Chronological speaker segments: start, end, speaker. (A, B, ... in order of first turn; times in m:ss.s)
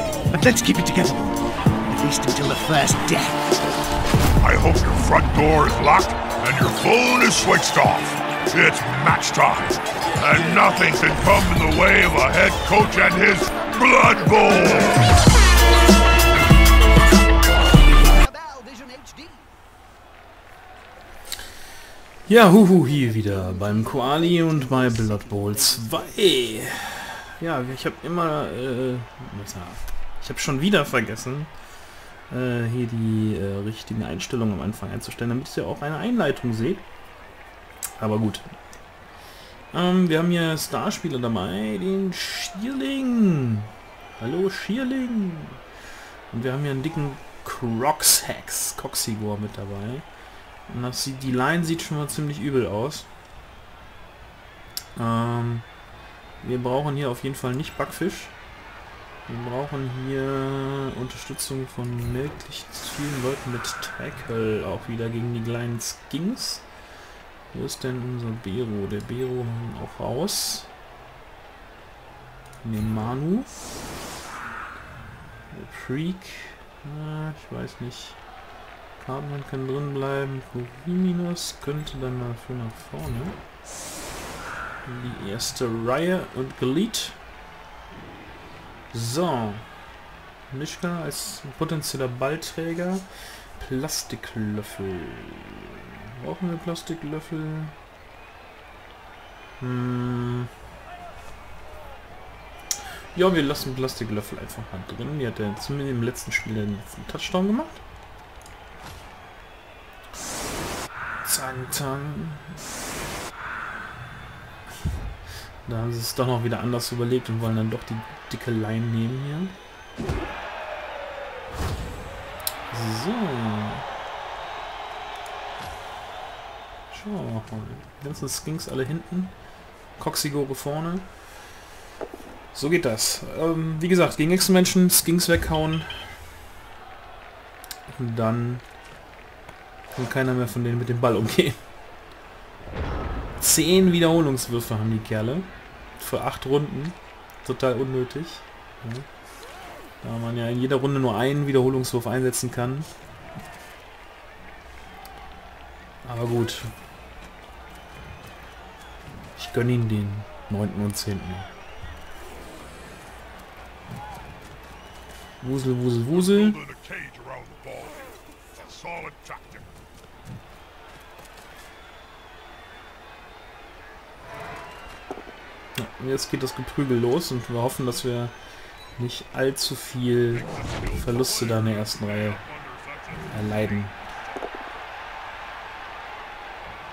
0:00.3-0:03.4 A
0:04.4-0:15.1 B
0:18.0-0:19.5 A
0:22.3-0:31.5 C
0:22.4-0:26.5 A
0:32.3-0:36.8 C
0:38.0-0:38.4 C
0:39.7-0:45.6 C
0:46.3-0:50.0 C
0:50.7-0:53.1 C
0:55.0-0:55.7 C
0:56.4-0:58.3 C
0:59.3-1:06.6 C
1:07.5-1:10.7 C
1:12.6-1:13.5 C
1:15.5-1:18.2 C
1:19.0-1:23.4 C
1:24.8-1:27.2 C
1:28.9-1:29.7 C
1:30.5-1:37.8 C
1:39.6-1:40.5 C
1:43.1-1:47.8 C
1:51.2-1:52.6 C
1:55.7-1:59.6 C
2:02.7-2:03.9 C
2:06.9-2:09.3 C
2:10.0-2:11.1 C
2:12.5-2:16.2 C
2:17.9-2:18.6 C
2:19.9-2:21.6 C
2:23.4-2:29.1 C
2:30.0-2:32.9 C
2:36.0-2:36.7 C
2:39.4-2:41.5 C
2:45.4-2:46.6 C
2:46.1-2:49.8 B
2:55.8-2:58.3 C
2:59.0-3:02.4 C
3:00.3-3:04.3 B
3:03.3-3:03.9 C